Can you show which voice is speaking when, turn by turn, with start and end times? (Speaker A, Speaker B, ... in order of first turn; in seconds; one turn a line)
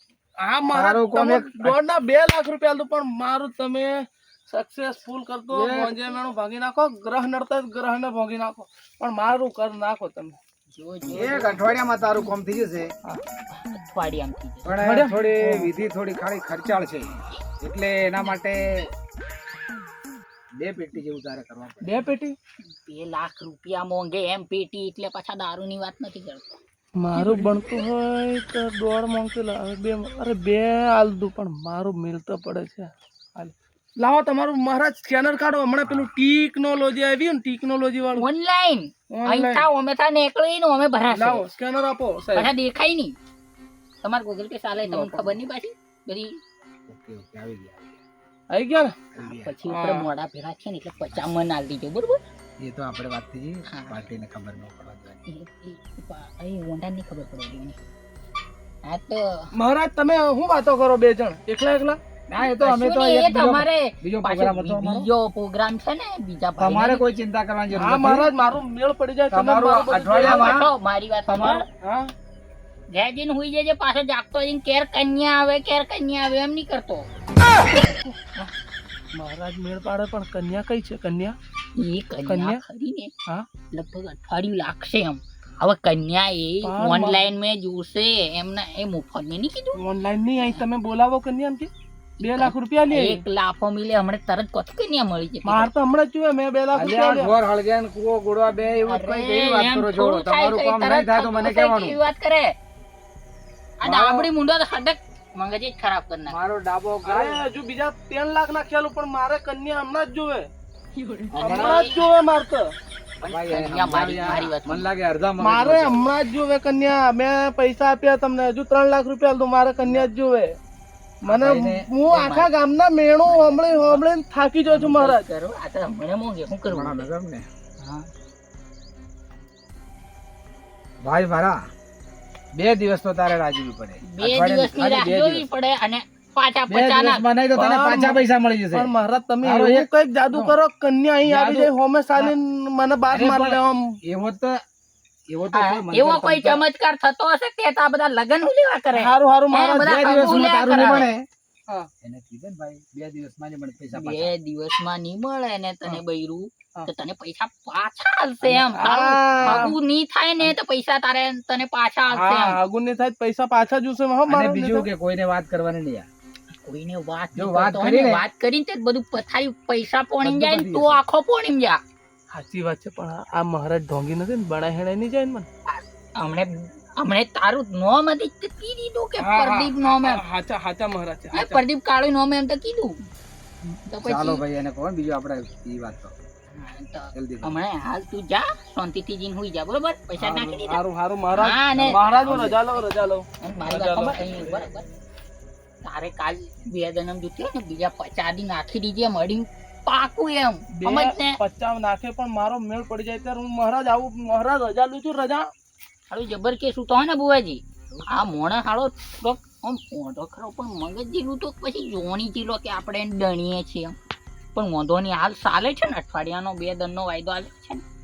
Speaker A: 0.4-10.4
Speaker B: 0.7-1.8
Speaker B: 5.5-6.2
Speaker C: 10.7-11.7
Speaker B: 11.1-12.9
Speaker C: 13.5-14.8
Speaker B: 14.6-18.9
Speaker A: 14.8-15.8
Speaker B: 20.6-22.0
Speaker A: 21.8-22.4
Speaker C: 22.6-26.6
Speaker A: 27.0-38.3
Speaker C: 38.1-41.5
Speaker A: 39.1-39.7
Speaker A: 41.1-42.5
Speaker C: 42.3-43.1
Speaker C: 44.0-46.3
Speaker A: 44.8-45.4
Speaker B: 46.9-48.0
Speaker A: 48.5-49.0
Speaker B: 49.1-49.6
Speaker C: 49.2-52.2
Speaker A: 49.6-50.1
Speaker B: 52.6-55.2
Speaker C: 53.7-54.0
Speaker C: 55.3-57.8
Speaker C: 58.9-59.5
Speaker A: 59.5-62.0
Speaker B: 62.3-65.1
Speaker C: 62.4-67.0
Speaker B: 66.6-68.3
Speaker A: 67.7-70.7
Speaker B: 69.3-70.7
Speaker C: 70.2-71.7
Speaker B: 71.3-71.6
Speaker A: 71.4-72.1
Speaker C: 72.9-77.1
Speaker A: 77.7-78.2
Speaker A: 79.1-81.3
Speaker C: 81.8-83.1
Speaker A: 82.2-82.6
Speaker C: 83.7-89.8
Speaker A: 86.6-87.3
Speaker A: 89.8-91.7
Speaker A: 92.2-93.2
Speaker C: 92.2-95.7
Speaker A: 95.4-97.3
Speaker B: 96.7-102.0
Speaker C: 98.8-102.5
Speaker C: 103.8-106.4
Speaker B: 103.8-104.3
Speaker B: 106.3-107.4
Speaker A: 107.0-110.5
Speaker C: 111.0-112.0
Speaker B: 111.3-111.9
Speaker A: 111.4-112.7
Speaker C: 113.2-114.9
Speaker B: 113.3-116.1
Speaker A: 115.4-120.5
Speaker A: 121.2-125.2
Speaker B: 121.2-121.9
Speaker C: 122.0-122.5
Speaker C: 123.2-124.0
Speaker C: 124.7-127.1
Speaker B: 126.7-127.5
Speaker C: 127.8-128.1
Speaker B: 131.0-131.6
Speaker B: 132.5-135.5
Speaker C: 134.1-137.2
Speaker B: 136.7-138.9
Speaker A: 137.5-143.9
Speaker B: 139.4-140.6
Speaker B: 141.2-142.3
Speaker B: 143.1-144.6
Speaker B: 145.3-146.6
Speaker C: 145.5-151.1
Speaker A: 148.9-150.0
Speaker B: 149.8-151.2
Speaker B: 152.0-154.3
Speaker C: 153.9-162.6
Speaker A: 158.4-159.7
Speaker B: 159.3-159.8
Speaker A: 162.1-164.9
Speaker B: 164.3-166.1
Speaker C: 166.6-171.8
Speaker B: 167.3-168.2
Speaker B: 170.2-171.0
Speaker A: 172.3-175.5
Speaker C: 175.7-180.2
Speaker A: 179.2-181.6
Speaker C: 181.3-183.0
Speaker C: 183.9-184.4
Speaker B: 184.0-186.1
Speaker C: 186.5-190.8
Speaker B: 187.1-187.6
Speaker A: 190.2-194.6
Speaker C: 191.3-192.9
Speaker B: 191.7-192.5
Speaker C: 193.4-194.8
Speaker C: 195.8-201.4
Speaker A: 200.8-205.5
Speaker C: 206.1-213.9
Speaker C: 214.5-217.8